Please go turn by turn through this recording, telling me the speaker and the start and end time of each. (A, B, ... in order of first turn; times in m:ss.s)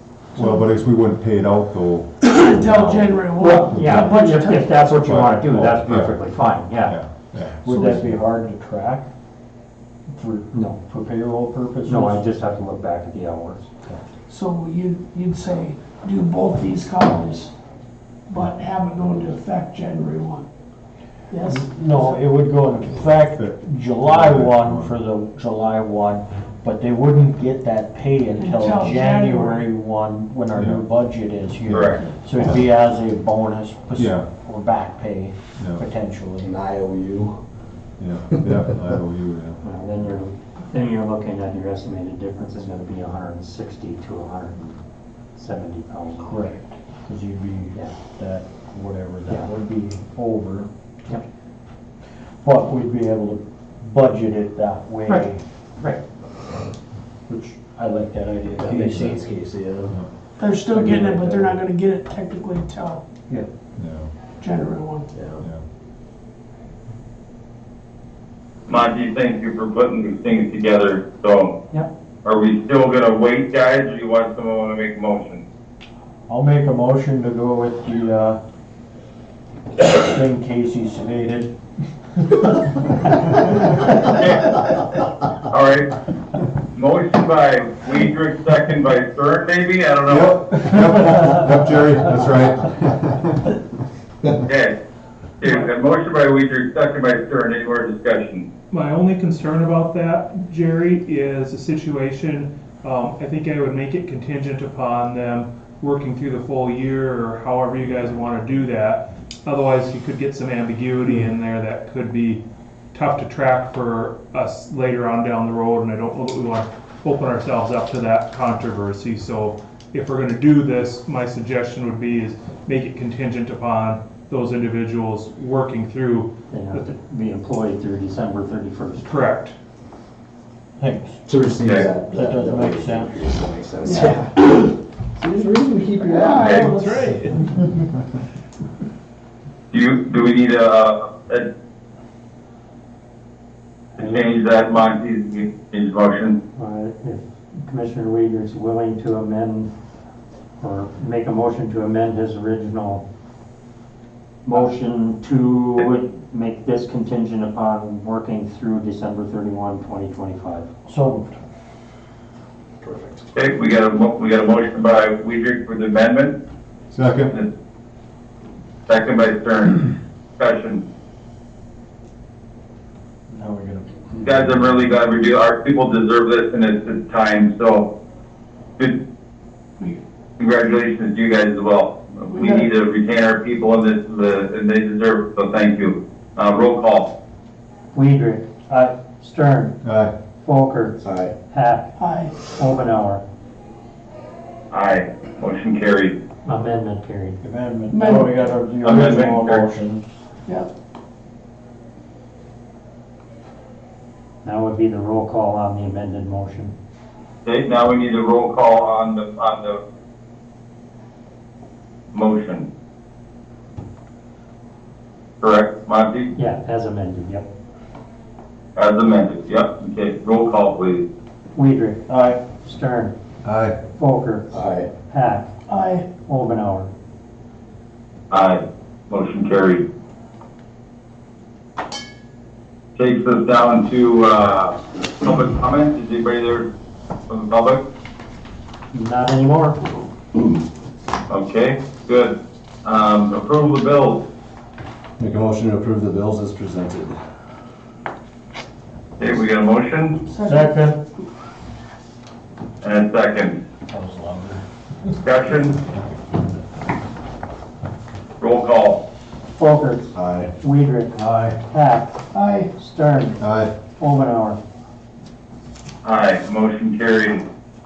0:00.3-0:00.6 A
0:00.4-0:03.1 B
0:02.2-0:04.8 A
0:03.4-0:07.0 C
0:03.7-0:04.0 B
0:04.9-0:08.2 B
0:07.6-0:09.1 D
0:10.1-0:12.2 D
0:10.5-0:10.8 C
0:11.8-0:13.7 C
0:14.3-0:17.5 A
0:18.3-0:20.5 A
0:21.3-0:21.6 A
0:21.4-0:36.5 D
0:23.3-0:24.9 B
0:28.4-0:29.6 A
0:30.6-0:30.8 B
0:31.7-0:32.0 E
0:34.0-0:34.3 B
0:35.6-0:35.8 B
0:36.4-0:37.4 F
0:38.0-0:39.6 B
0:39.6-0:44.8 C
0:45.3-0:46.4 C
0:46.2-0:50.7 D
0:52.4-0:55.4 D
0:57.3-0:59.2 D
0:58.6-1:00.0 F
1:00.4-1:03.0 A
1:00.7-1:01.6 F
1:03.8-1:04.1 B
1:04.4-1:05.1 A
1:05.1-1:05.4 F
1:05.4-1:05.6 B
1:08.7-1:11.6 E
1:12.2-1:15.4 E
1:16.3-1:18.4 D
1:19.9-1:21.5 D
1:24.0-1:24.6 E
1:25.5-1:25.9 E
1:26.7-1:30.4 E
1:30.1-1:33.4 B
1:34.4-1:34.7 E
1:35.4-1:38.5 E
1:35.4-1:35.7 G
1:38.7-1:52.4 G
1:52.9-2:06.8 G
2:06.5-2:09.2 C
2:09.0-2:09.6 G
2:10.8-2:11.2 D
2:11.2-2:17.2 F
2:11.6-2:11.9 E
2:12.0-2:13.2 D
2:13.8-2:14.3 A
2:16.0-2:17.2 A
2:16.4-2:16.7 E
2:17.0-2:17.7 G
2:19.7-2:21.5 E
2:24.0-2:24.3 C
2:24.0-2:26.4 E
2:26.6-2:29.7 C
2:30.6-2:33.0 C
2:34.4-2:40.7 C
2:40.9-2:41.4 D
2:42.8-2:43.3 F
2:43.3-2:46.4 E
2:46.9-2:47.3 B
2:48.9-2:50.8 E
2:53.3-2:54.9 D
2:54.2-2:57.9 E
3:00.4-3:07.1 E
3:02.3-3:02.7 A
3:07.9-3:09.8 C
3:09.8-3:10.1 B
3:10.4-3:13.2 C
3:11.0-3:11.3 F
3:12.0-3:12.3 A
3:14.7-3:16.1 E
3:16.4-3:17.4 C
3:17.4-3:20.0 D
3:17.9-3:18.4 A
3:18.8-3:19.6 E
3:24.4-3:26.7 C
3:27.4-3:29.8 E
3:32.1-3:32.7 E
3:35.4-3:36.3 E
3:36.3-3:37.5 C
3:38.8-3:41.0 E
3:41.5-3:43.1 C
3:42.1-3:42.4 D
3:43.4-3:43.8 B
3:44.0-3:44.5 C
3:44.5-3:44.9 F
3:45.1-3:45.5 C
3:45.7-3:46.1 A
3:46.2-3:46.9 C
3:48.3-3:49.8 E
3:53.0-3:56.7 E
3:57.3-3:57.8 E
3:58.9-3:59.8 C
4:01.3-4:04.2 E
4:05.2-4:07.2 F
4:09.2-4:10.2 E
4:10.3-4:10.7 A
4:10.4-4:11.0 D
4:12.8-4:13.6 E
4:13.9-4:14.6 D
4:15.2-4:15.8 E
4:18.4-4:19.0 E
4:19.6-4:22.2 C
4:22.3-4:22.7 A
4:22.7-4:23.4 C
4:23.4-4:23.7 B
4:24.0-4:24.6 C
4:26.0-4:27.4 E